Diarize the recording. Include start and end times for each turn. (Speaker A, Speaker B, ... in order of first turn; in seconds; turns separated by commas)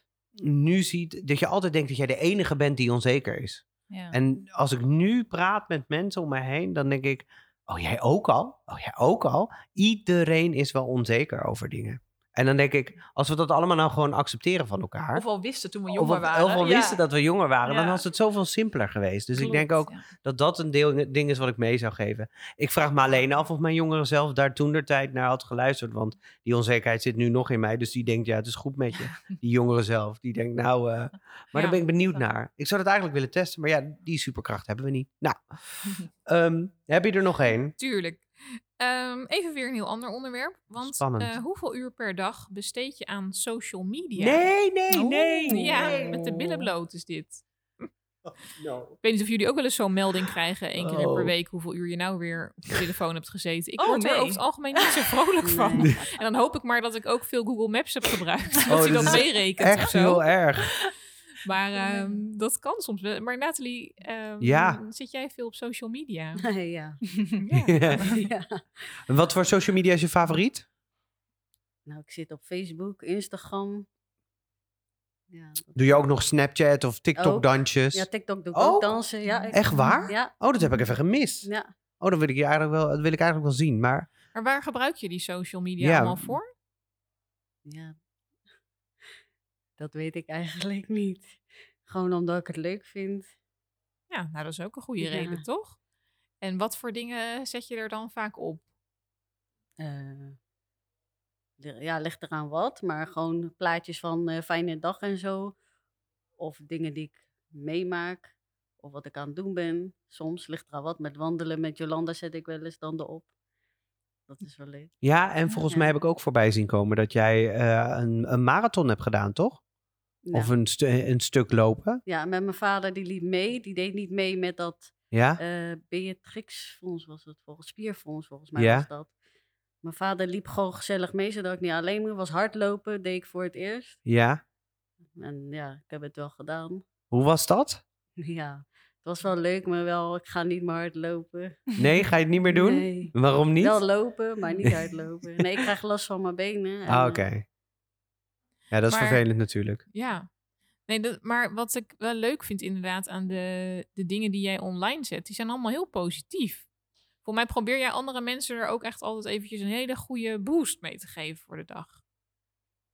Speaker A: 0.4-15.2, Speaker B: 3.9-4.2, Speaker B: 15.2-17.0, Speaker A: 15.9-37.8, Speaker B: 17.6-18.0, Speaker B: 19.4-20.1, Speaker C: 37.8-44.5, Speaker A: 40.8-41.4, Speaker A: 44.2-46.7, Speaker B: 44.9-45.8, Speaker C: 45.5-47.9, Speaker A: 48.5-49.0, Speaker C: 49.0-60.2, Speaker A: 50.8-51.3, Speaker B: 53.8-54.9, Speaker D: 55.4-56.0, Speaker A: 58.7-60.8, Speaker C: 61.4-66.5, Speaker A: 64.4-64.8, Speaker D: 66.4-67.0, Speaker C: 67.4-68.0, Speaker A: 67.5-68.2, Speaker D: 68.0-68.8, Speaker A: 69.1-70.7, Speaker D: 71.9-73.9, Speaker D: 75.3-76.0, Speaker A: 75.8-78.9, Speaker D: 77.2-80.3, Speaker B: 79.3-80.1, Speaker A: 79.5-81.5, Speaker A: 82.0-84.1, Speaker C: 84.3-86.5, Speaker A: 85.8-86.4, Speaker D: 87.7-88.0, Speaker D: 89.8-93.3, Speaker C: 94.1-95.8, Speaker D: 95.0-95.4, Speaker C: 96.4-98.6, Speaker D: 99.8-100.4, Speaker D: 101.6-105.6, Speaker D: 106.4-113.3, Speaker D: 114.3-114.9, Speaker A: 115.0-119.6, Speaker D: 115.6-116.0, Speaker D: 120.3-120.5, Speaker A: 120.3-122.0, Speaker D: 122.1-129.1, Speaker A: 125.1-125.4, Speaker A: 128.6-128.9, Speaker D: 129.8-134.0, Speaker A: 134.1-134.4, Speaker D: 135.2-136.8, Speaker A: 137.1-137.8, Speaker D: 138.2-141.7, Speaker A: 141.8-143.8, Speaker D: 142.5-147.2, Speaker A: 144.6-144.9, Speaker A: 146.9-147.4, Speaker A: 148.7-149.8, Speaker C: 148.9-149.2, Speaker C: 149.9-150.3, Speaker C: 150.9-156.7, Speaker C: 157.2-162.0